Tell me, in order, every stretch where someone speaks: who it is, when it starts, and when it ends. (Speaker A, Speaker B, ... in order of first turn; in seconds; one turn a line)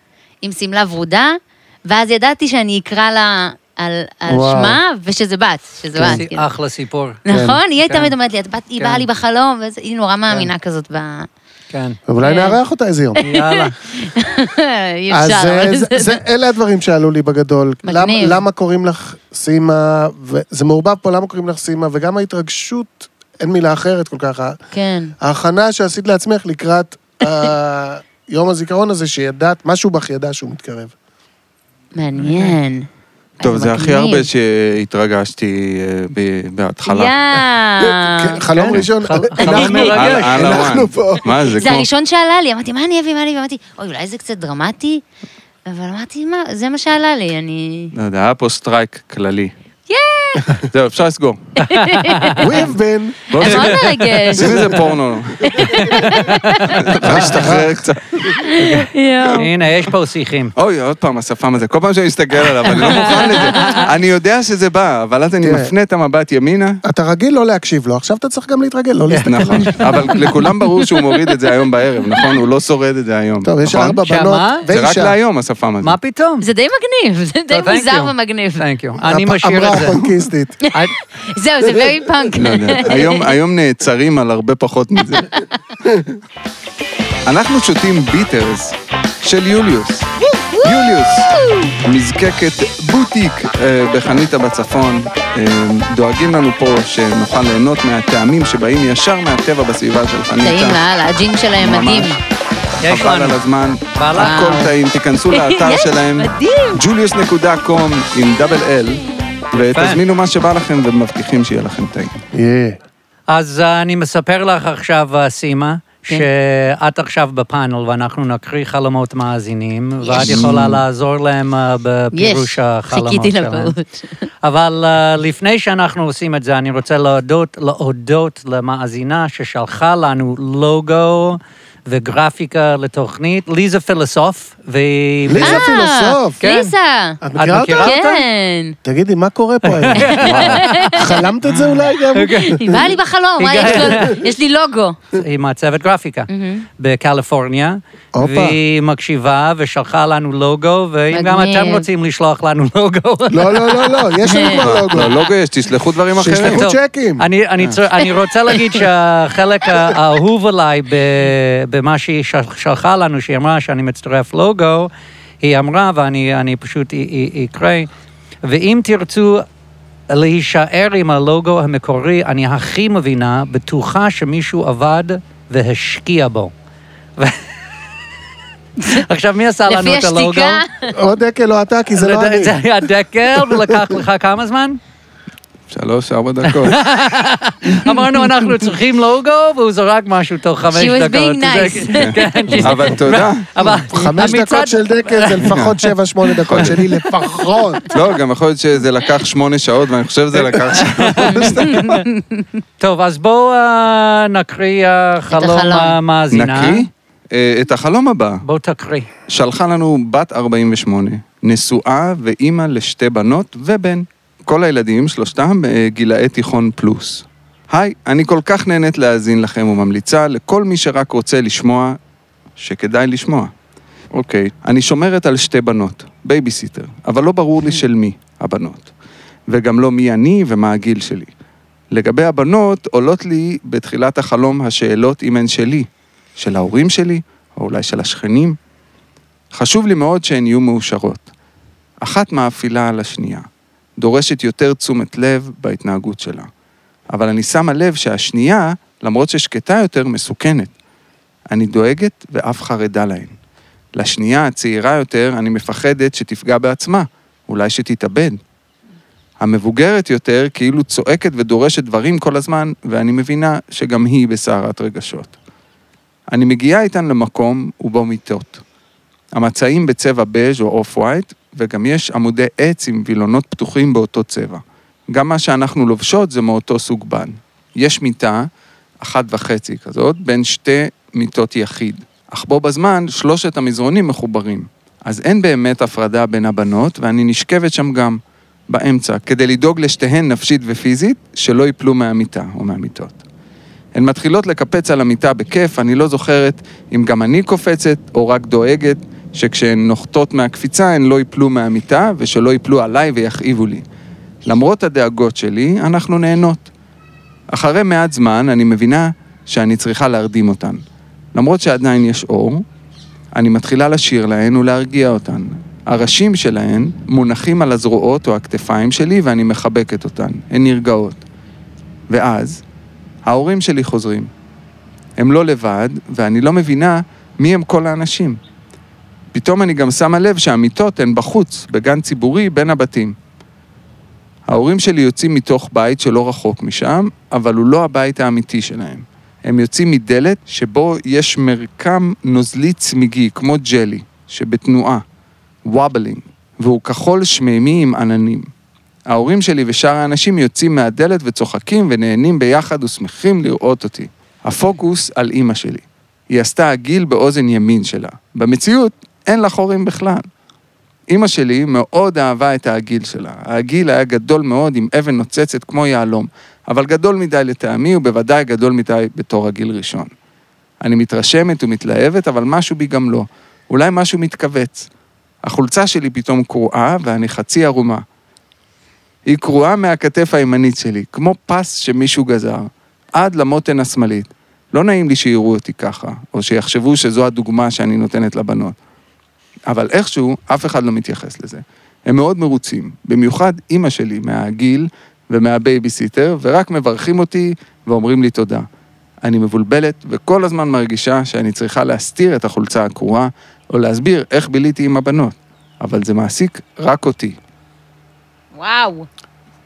Speaker A: 0.4-6.5
Speaker B: 4.3-4.8
Speaker B: 5.9-6.2
Speaker C: 6.0-7.2
Speaker A: 7.2-11.3
Speaker B: 7.3-7.6
Speaker C: 7.8-8.1
Speaker C: 8.8-9.0
Speaker C: 11.7-12.0
Speaker B: 12.1-13.2
Speaker A: 12.2-12.6
Speaker A: 13.2-16.2
Speaker C: 13.2-13.7
Speaker B: 15.1-24.6
Speaker A: 17.8-18.4
Speaker A: 24.7-25.1
Speaker B: 25.2-30.9
Speaker A: 31.9-32.9
Speaker A: 33.4-34.2
Speaker D: 33.4-37.1
Speaker A: 36.9-38.4
Speaker B: 37.8-41.4
Speaker C: 38.6-40.7
Speaker D: 39.4-41.9
Speaker A: 39.4-39.9
Speaker A: 41.5-45.0
Speaker A: 45.6-47.9
Speaker D: 47.9-49.5
Speaker A: 49.9-50.6
Speaker D: 50.6-51.4
Speaker A: 51.6-52.5
Speaker C: 51.7-52.4
Speaker B: 52.4-53.2
Speaker D: 53.3-55.9
Speaker A: 53.4-54.7
Speaker C: 53.4-54.3
Speaker A: 55.5-56.9
Speaker C: 55.8-57.4
Speaker D: 56.7-58.4
Speaker B: 57.0-58.3
Speaker A: 58.3-59.5
Speaker C: 58.5-60.5
Speaker D: 60.5-66.8
Speaker C: 62.6-63.9
Speaker A: 62.9-63.8
Speaker B: 65.4-65.7
Speaker B: 66.8-69.9
Speaker C: 69.1-69.9
Speaker D: 69.2-74.0
Speaker B: 73.4-75.1
Speaker C: 74.0-74.6
Speaker D: 74.7-76.0
Speaker C: 75.8-76.5
Speaker A: 76.4-78.6
Speaker C: 77.5-80.0
Speaker B: 79.1-80.6
Speaker A: 80.6-83.3
Speaker D: 82.3-85.3
Speaker D: 87.2-91.3
Speaker A: 90.4-90.8
Speaker D: 91.8-100.8
Speaker A: 100.4-102.2
Speaker D: 101.6-102.1
Speaker C: 102.8-103.3
Speaker D: 102.8-112.2
Speaker C: 103.9-104.5
Speaker A: 104.2-104.7
Speaker A: 105.3-106.8
Speaker C: 109.6-110.0
Speaker B: 112.3-112.8
Speaker C: 113.3-123.7
Speaker A: 120.0-120.4
Speaker D: 120.2-120.8
Speaker A: 122.1-124.2
Speaker C: 124.4-135.7
Speaker B: 135.3-136.4
Speaker A: 135.4-137.2
Speaker C: 136.4-136.7
Speaker B: 137.2-138.2
Speaker C: 137.4-138.0
Speaker A: 137.8-138.8
Speaker B: 138.8-142.9
Speaker C: 139.7-141.0
Speaker A: 139.9-141.2
Speaker D: 140.2-140.6
Speaker C: 142.1-142.6
Speaker A: 142.4-145.0
Speaker C: 143.4-144.2
Speaker B: 143.6-144.1
Speaker C: 145.1-153.9
Speaker A: 146.3-146.7
Speaker B: 148.1-148.6
Speaker A: 151.1-151.8
Speaker B: 153.3-155.1
Speaker A: 154.2-154.6
Speaker D: 154.5-156.6
Speaker B: 156.2-157.2
Speaker C: 156.3-164.9
Speaker A: 158.5-158.8
Speaker C: 165.4-167.9
Speaker C: 168.4-169.4
Speaker C: 170.1-176.5
Speaker C: 178.8-180.6
Speaker A: 179.7-180.9
Speaker B: 180.9-182.6
Speaker C: 181.9-184.8
Speaker B: 183.4-184.0
Speaker D: 185.7-186.8
Speaker C: 186.5-195.8
Speaker A: 190.7-192.7
Speaker D: 192.0-193.5
Speaker B: 193.6-197.9
Speaker D: 195.4-195.7
Speaker D: 196.5-196.8
Speaker C: 196.5-196.9
Speaker D: 197.9-202.0
Speaker C: 200.5-201.7
Speaker A: 201.2-202.6
Speaker C: 202.8-206.9
Speaker A: 205.3-205.9
Speaker D: 206.3-208.4
Speaker C: 208.4-209.1
Speaker D: 209.3-222.0
Speaker D: 222.6-223.5
Speaker D: 224.1-228.9
Speaker D: 229.5-231.3
Speaker D: 231.9-238.6
Speaker D: 239.5-241.3
Speaker D: 242.0-243.4
Speaker D: 244.0-246.5
Speaker D: 247.1-250.7
Speaker D: 251.5-253.3
Speaker D: 253.9-258.4
Speaker D: 259.4-265.3
Speaker D: 266.3-268.6
Speaker D: 269.3-274.6
Speaker D: 275.1-278.5
Speaker D: 279.0-293.2
Speaker D: 293.9-303.8
Speaker D: 304.4-306.7
Speaker D: 307.5-310.8
Speaker D: 311.3-312.6
Speaker D: 313.3-321.2
Speaker D: 322.1-322.6
Speaker D: 323.2-324.3
Speaker D: 325.2-328.4
Speaker D: 329.3-333.1
Speaker D: 334.5-345.0
Speaker D: 345.6-348.5
Speaker D: 349.1-360.2
Speaker D: 361.1-370.1
Speaker D: 370.8-374.9
Speaker D: 375.4-378.0
Speaker D: 379.2-388.8
Speaker D: 389.7-398.6
Speaker D: 399.2-407.4
Speaker A: 408.5-409.1